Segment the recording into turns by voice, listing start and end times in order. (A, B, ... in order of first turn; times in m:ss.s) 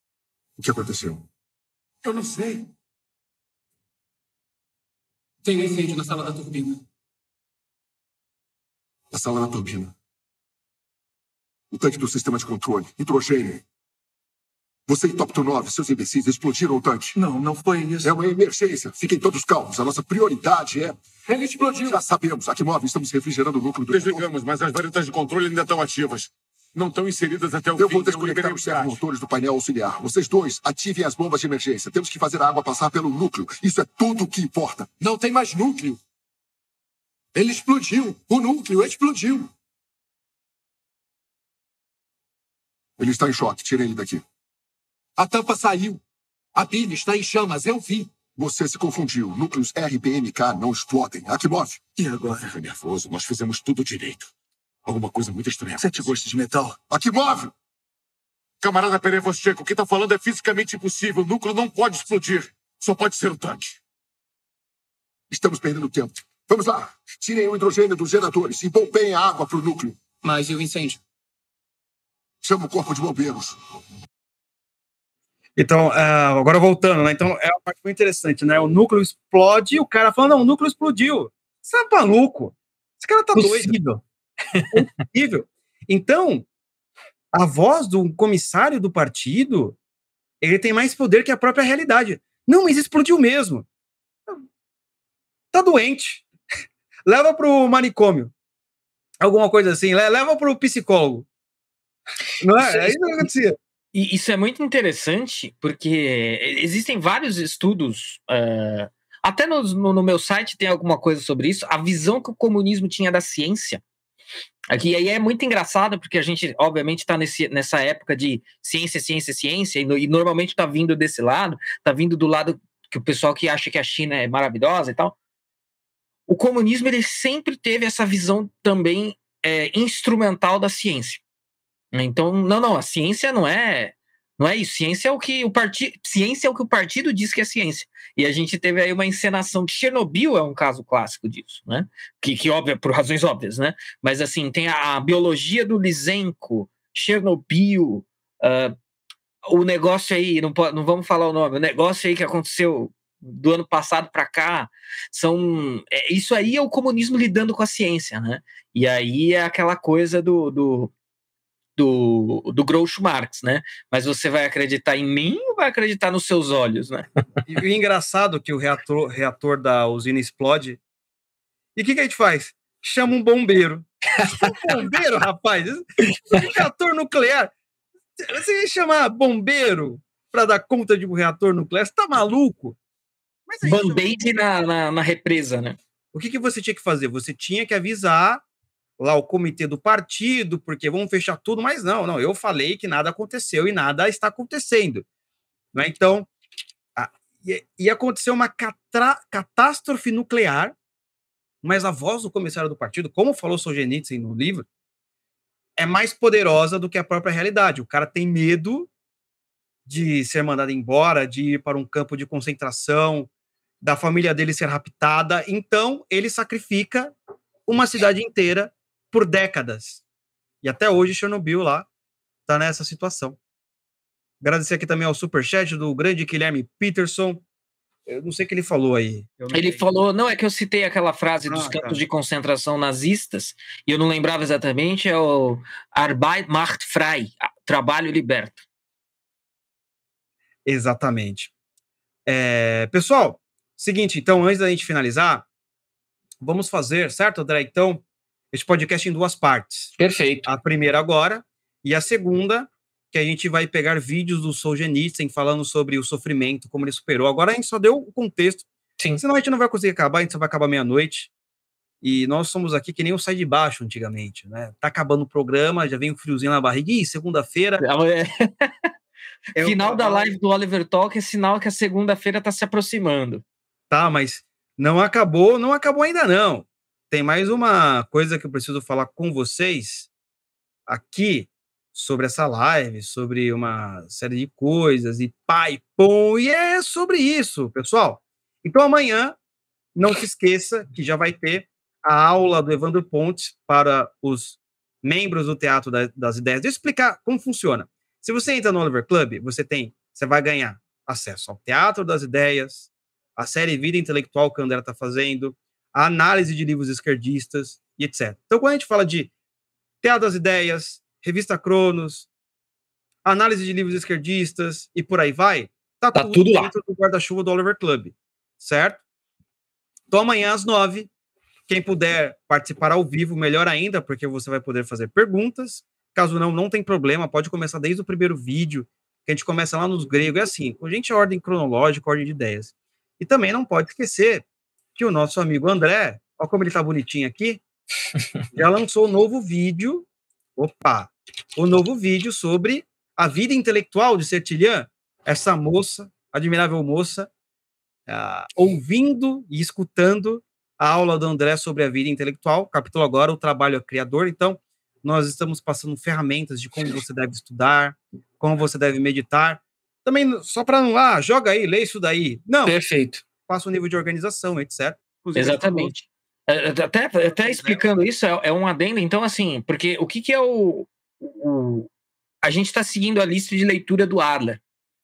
0:00.6-0:01.2 A
0:02.0-0:02.6 B
0:05.4-0:06.8 B
0:09.1-0:09.9 A
0:11.7-0:13.6 A
0:14.9-0:17.2 A
0:17.1-0:18.2 B
0:18.0-0:21.0 A
0:21.3-0:22.0 B
0:21.7-0:24.3 A
0:23.9-0:29.0 C
0:27.8-0:34.9 A
0:35.0-0:36.0 B
0:37.3-0:39.5 B
0:43.0-0:44.2 A
0:45.2-0:46.0 B
0:46.5-0:48.2 B
0:48.3-0:54.3 A
0:52.0-0:52.5 B
0:54.8-0:56.2 A
0:55.8-0:56.8 B
0:56.8-0:57.5 A
0:58.6-1:03.8 C
1:05.3-1:10.0 A
1:10.2-1:11.0 B
1:12.4-1:13.6 A
1:15.6-1:24.0 D
1:23.3-1:23.7 E
1:24.7-1:26.4 D
1:27.3-1:29.8 D
1:30.4-1:33.6 D
1:35.5-1:36.3 D
1:37.0-1:38.3 D
1:39.2-1:41.3 D
1:42.4-1:43.6 D
1:42.6-1:43.2 E
1:43.9-1:53.8 E
1:54.7-2:05.2 E
2:06.3-2:11.2 E
2:11.9-2:28.8 E
2:29.4-2:40.9 E
2:41.8-2:47.0 E
2:47.4-2:50.8 D
2:51.8-2:57.5 D
2:58.2-3:02.8 D
3:03.5-3:04.4 D
3:03.6-3:05.8 E
3:06.1-3:08.4 D
3:09.0-3:15.0 D
3:15.7-3:16.3 D
3:17.0-3:20.7 D
3:21.6-3:24.6 D
3:25.8-3:28.9 D
3:29.8-3:33.3 D
3:33.8-3:37.1 D
3:37.7-3:40.0 D
3:40.6-3:41.9 D
3:42.5-3:43.4 D
3:44.4-3:47.4 D
3:48.1-3:49.9 D
3:49.5-3:58.6 E
3:51.4-3:52.0 D
4:00.6-4:01.5 D
4:02.2-4:05.4 D
4:06.4-4:18.7 D
4:10.0-4:10.5 E
4:19.2-4:21.3 D
4:22.0-4:27.8 D
4:27.8-4:28.7 E
4:29.5-4:30.3 D
4:29.6-4:33.4 E
4:33.9-4:40.1 D
4:40.9-4:49.4 D
4:50.0-5:09.3 D
5:10.0-5:12.3 D
5:13.2-5:19.0 D
5:16.1-5:16.7 E
5:20.1-5:21.1 D
5:21.7-5:34.4 D
5:35.0-5:37.6 D
5:38.5-5:47.3 D
5:48.1-6:02.8 D
6:02.6-6:03.2 E
6:03.5-6:05.9 D
6:05.3-6:11.9 E
6:07.3-6:07.8 D
6:12.4-6:14.6 E